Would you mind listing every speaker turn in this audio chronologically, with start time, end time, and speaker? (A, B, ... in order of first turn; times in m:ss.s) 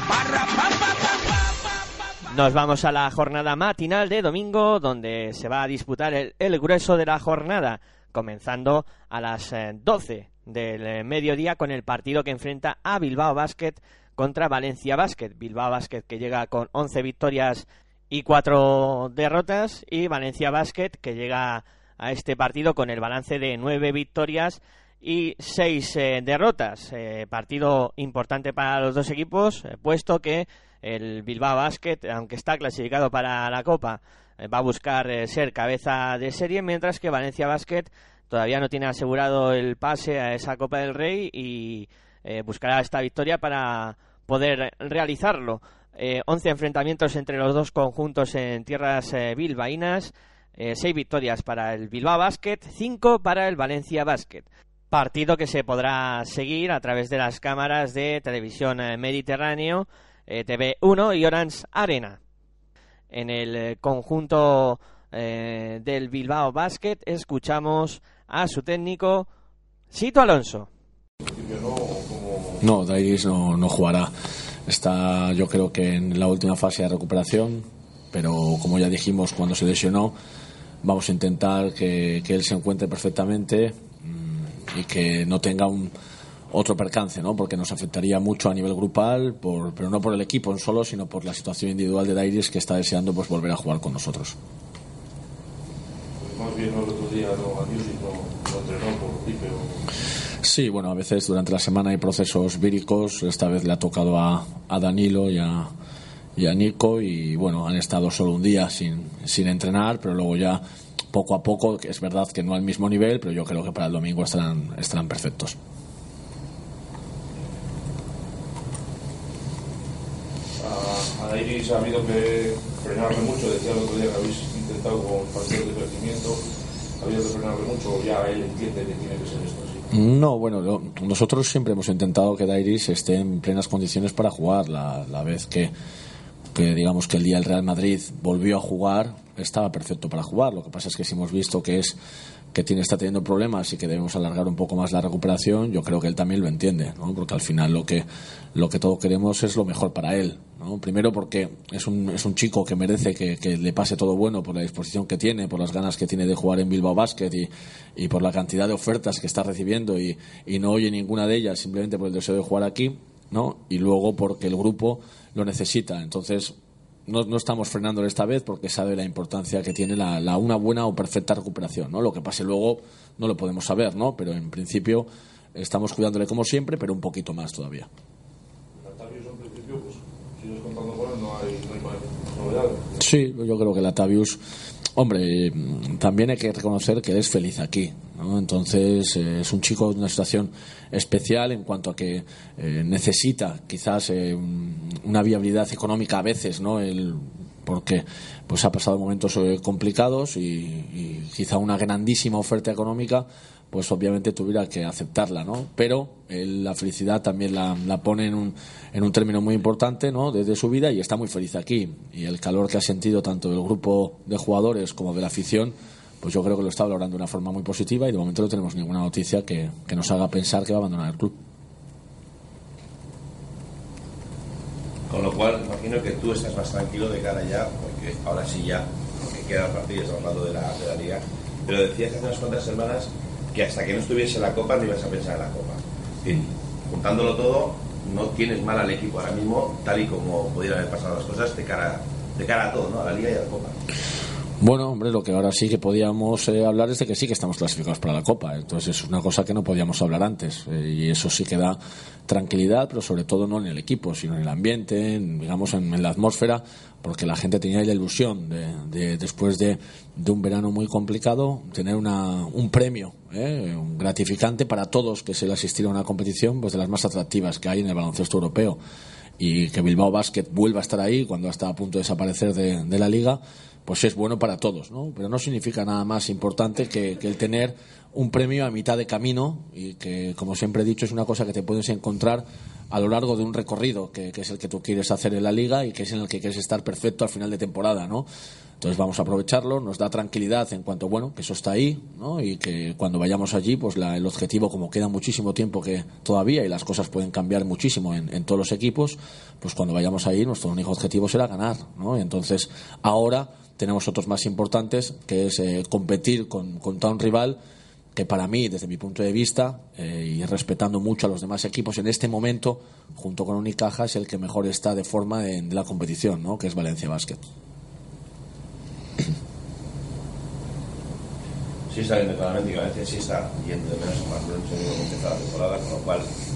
0:02.3-1:02.2 A
1:03.1-1:09.3 A
1:09.9-1:10.7 A
1:11.2-1:12.6 B
1:12.6-1:14.1 C
1:14.6-1:20.2 C
1:20.8-1:25.9 C
1:26.5-1:34.3 C
1:36.2-1:39.8 B
1:40.4-1:45.7 C
1:46.4-1:55.6 C
2:00.6-2:06.4 B
2:07.0-2:09.9 B
2:09.9-2:15.7 C
2:16.5-2:22.0 C
2:22.5-2:46.5 C
2:47.1-2:57.9 C
2:58.7-3:03.0 B
3:03.0-3:04.4 C
3:05.0-3:41.4 C
3:45.1-4:03.8 D
4:04.6-4:28.8 C
4:29.4-4:48.3 C
4:48.8-5:07.6 C
5:08.1-5:17.4 C
5:21.9-5:26.3 D